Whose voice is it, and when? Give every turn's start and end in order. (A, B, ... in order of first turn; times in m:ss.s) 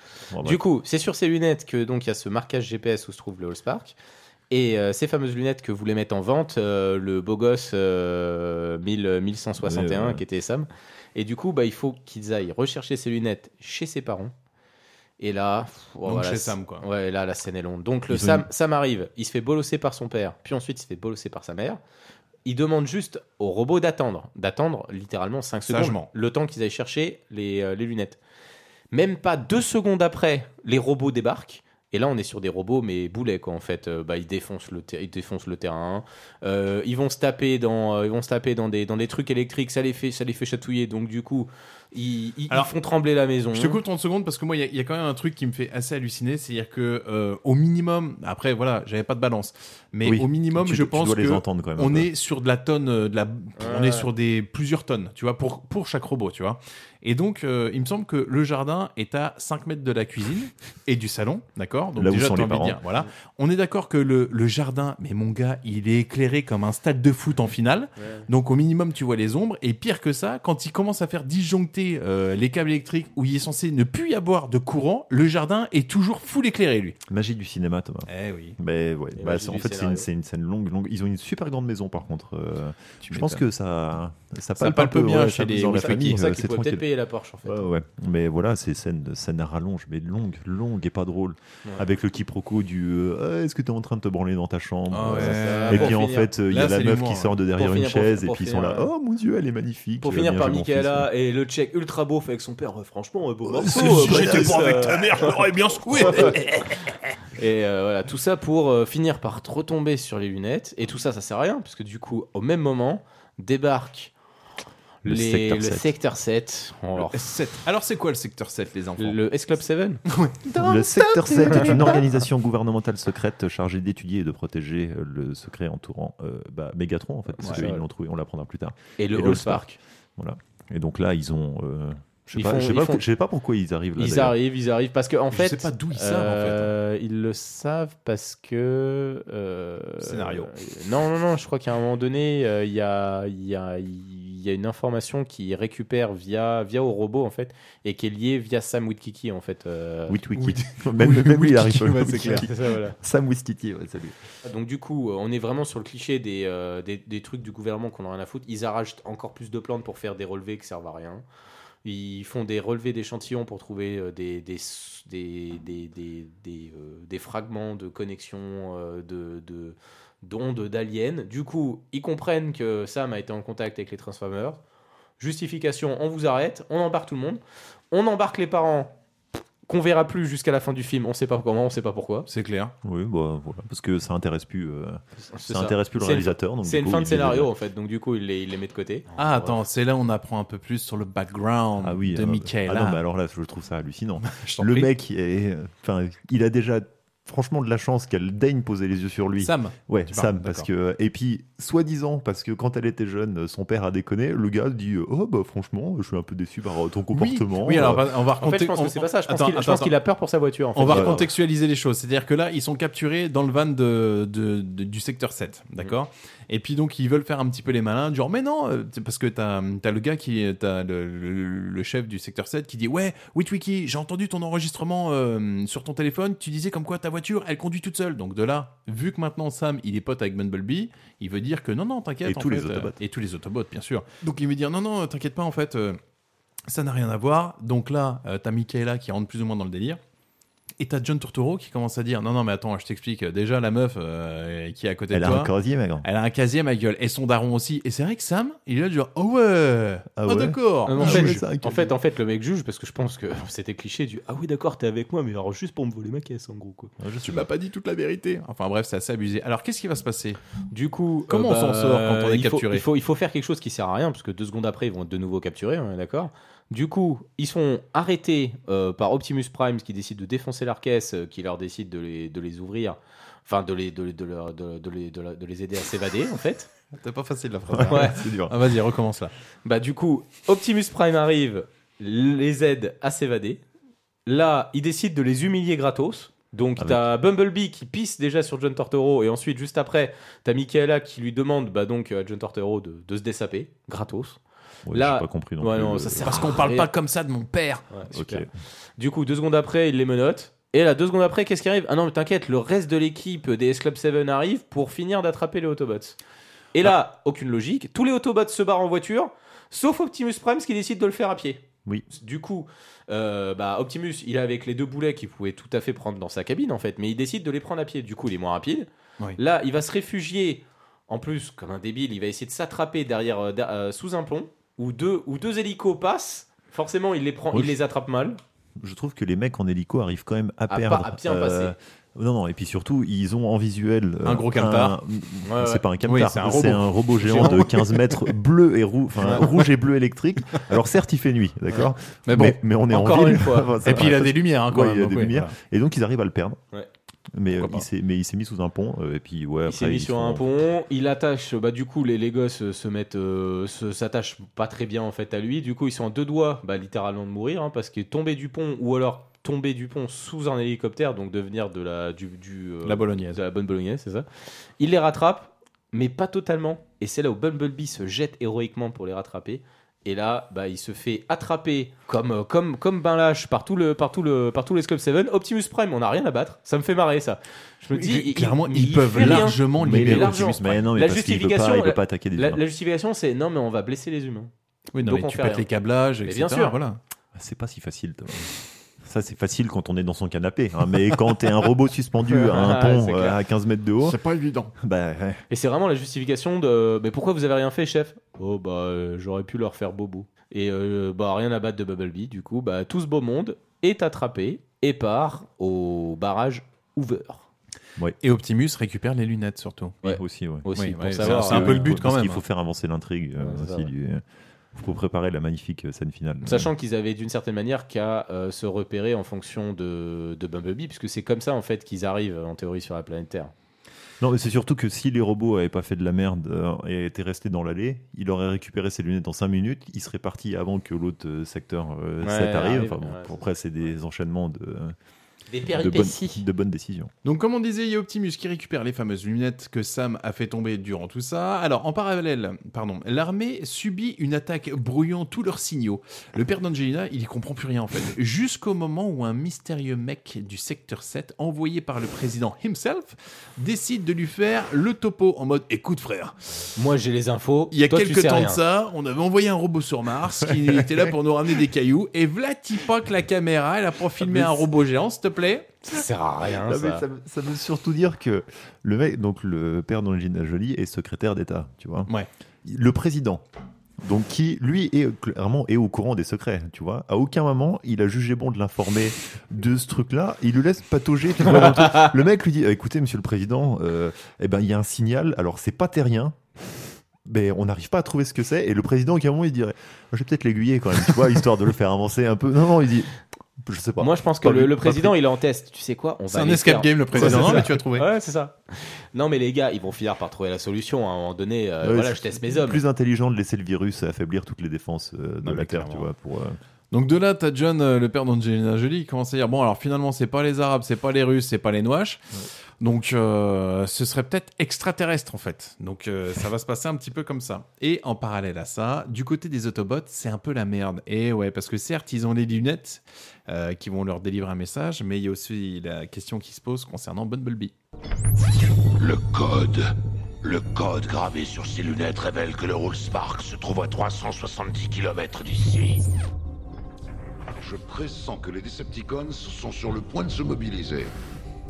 0:00.3-0:00.6 A
0:00.4-0:04.0 B
0:04.5-0:14.3 B
0:09.6-0:10.2 A
0:15.2-0:21.8 B
0:16.0-0:16.8 C
0:18.1-0:18.5 A
0:22.4-0:28.2 B
0:25.7-0:26.1 C
0:28.9-0:43.8 B
0:43.5-1:17.0 C
0:50.0-0:52.1 A
0:53.6-0:54.1 B
1:02.0-1:02.8 A
1:17.1-1:26.8 A
1:18.1-1:18.6 C
1:19.2-1:20.1 B
1:23.0-1:23.4 C
1:24.6-1:26.2 C
1:25.7-1:27.7 B
1:27.5-1:41.1 A
1:34.9-1:37.3 C
1:35.1-1:36.3 B
1:37.6-1:38.9 B
1:40.0-1:45.4 B
1:43.5-1:45.2 A
1:43.7-1:46.9 C
1:46.0-1:46.4 B
1:47.4-1:54.1 B
1:55.0-1:57.2 B
1:55.0-1:55.9 A
1:57.0-1:59.2 C
1:59.0-2:00.0 B
2:00.1-2:02.1 C
2:00.6-2:09.7 A
2:07.4-2:07.8 B
2:09.0-2:09.8 B
2:10.2-2:14.4 A
2:12.3-2:13.0 B
2:14.0-2:30.2 B
2:15.3-2:16.7 C
2:20.0-2:20.5 C
2:30.1-2:34.2 A
2:30.4-2:32.5 C
2:32.3-2:33.0 B
2:34.4-2:41.2 B
2:41.8-2:54.6 B
2:55.2-2:57.4 B
2:57.9-2:58.9 B
2:59.7-3:02.3 B
3:02.3-3:02.7 C
3:02.8-3:07.5 A
3:05.2-3:09.6 B
3:09.2-3:13.0 C
3:11.8-3:28.0 A
3:14.3-3:14.9 C
3:19.4-3:20.7 C
3:27.1-3:30.0 C
3:28.4-3:31.3 B
3:30.8-3:56.0 C
3:30.9-3:31.2 A
3:52.2-3:53.0 A
3:56.7-4:00.0 C
4:00.8-4:05.5 C
4:05.1-4:06.1 A
4:06.0-4:11.4 C
4:10.2-4:12.0 A
4:10.9-4:16.9 B
4:17.0-4:17.5 A
4:17.2-4:20.4 C
4:20.7-4:36.7 B
4:21.3-4:22.8 C
4:37.0-4:39.3 C
4:37.7-4:38.6 A
4:37.9-4:38.2 B
4:39.6-4:43.6 B
4:44.3-4:54.4 B
4:46.8-4:47.1 A
4:54.9-4:56.5 A
4:54.9-4:56.9 B
4:56.3-4:57.9 C
4:57.9-4:58.5 B
4:58.1-4:58.5 A
4:59.0-5:06.2 B
5:06.7-5:28.4 B
5:28.8-5:46.6 A
5:30.7-5:31.7 B
5:34.2-5:35.0 C
5:35.4-5:35.8 B
5:36.1-5:38.3 C
5:39.2-5:39.7 C
5:42.3-5:42.6 C
5:42.9-5:43.7 B
5:43.8-5:45.5 C
5:47.3-5:50.5 A
5:47.6-5:47.8 C
5:49.7-6:04.3 B
6:02.8-6:03.4 C
6:04.8-6:24.5 B
6:17.9-6:20.7 C
6:19.2-6:22.6 A
6:25.0-6:27.0 C
6:25.0-6:25.7 B
6:26.3-6:26.8 B
6:27.3-6:34.2 A
6:32.3-6:33.4 B
6:34.0-6:34.7 C
6:34.8-6:35.4 A
6:35.5-6:47.5 B
6:48.2-6:50.0 C
6:50.0-6:52.0 B
6:50.0-6:54.2 A
6:50.8-6:52.4 C
6:53.4-6:53.9 B
6:54.7-6:56.7 A
6:56.4-7:03.5 B
7:04.2-7:15.0 A
7:12.2-7:13.4 B
7:15.5-7:16.4 B
7:15.7-7:17.1 A
7:17.2-7:36.4 C
7:36.8-7:38.6 B
7:37.7-7:45.8 C
7:44.2-7:44.6 A
7:45.9-7:47.0 B
7:46.4-7:52.1 A
7:52.6-7:53.4 A
7:54.0-8:06.4 A
8:07.2-8:13.1 A
8:13.6-8:15.2 A
8:14.0-8:22.8 B
8:16.3-8:18.1 C
8:17.2-8:17.7 A
8:21.8-8:26.6 A
8:25.4-8:26.1 C
8:26.9-8:32.2 C
8:32.8-8:47.7 C
8:49.0-8:49.9 D
8:50.4-8:56.0 D
8:57.5-9:01.1 E